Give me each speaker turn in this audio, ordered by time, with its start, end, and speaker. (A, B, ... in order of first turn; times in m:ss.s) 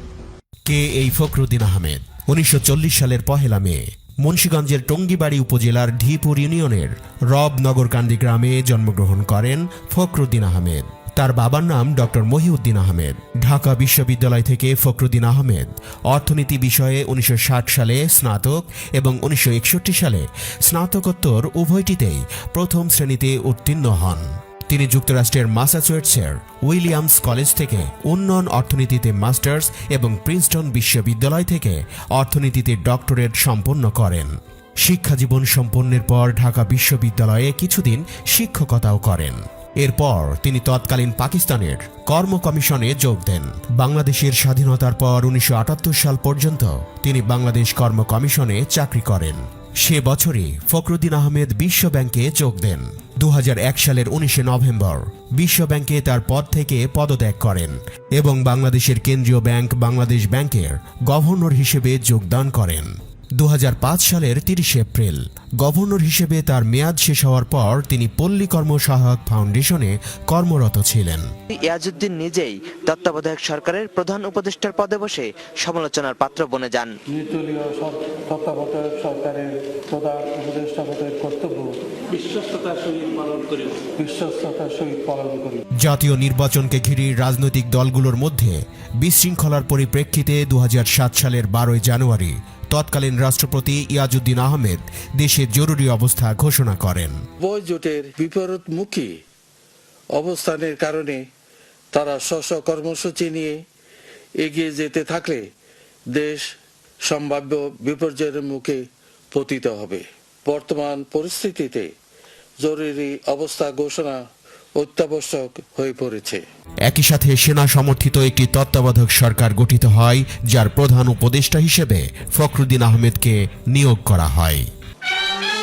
0:00.7-1:11.3 A
1:11.5-1:16.9 B
1:17.1-1:25.6 C
1:25.8-1:37.2 A
1:37.4-1:39.1 C
1:40.2-1:41.2 C
1:41.9-1:43.6 C
1:44.4-1:45.5 C
1:46.1-1:46.5 C
1:47.0-1:51.9 C
1:52.6-1:54.2 C
1:54.8-1:56.4 C
1:56.8-2:04.7 A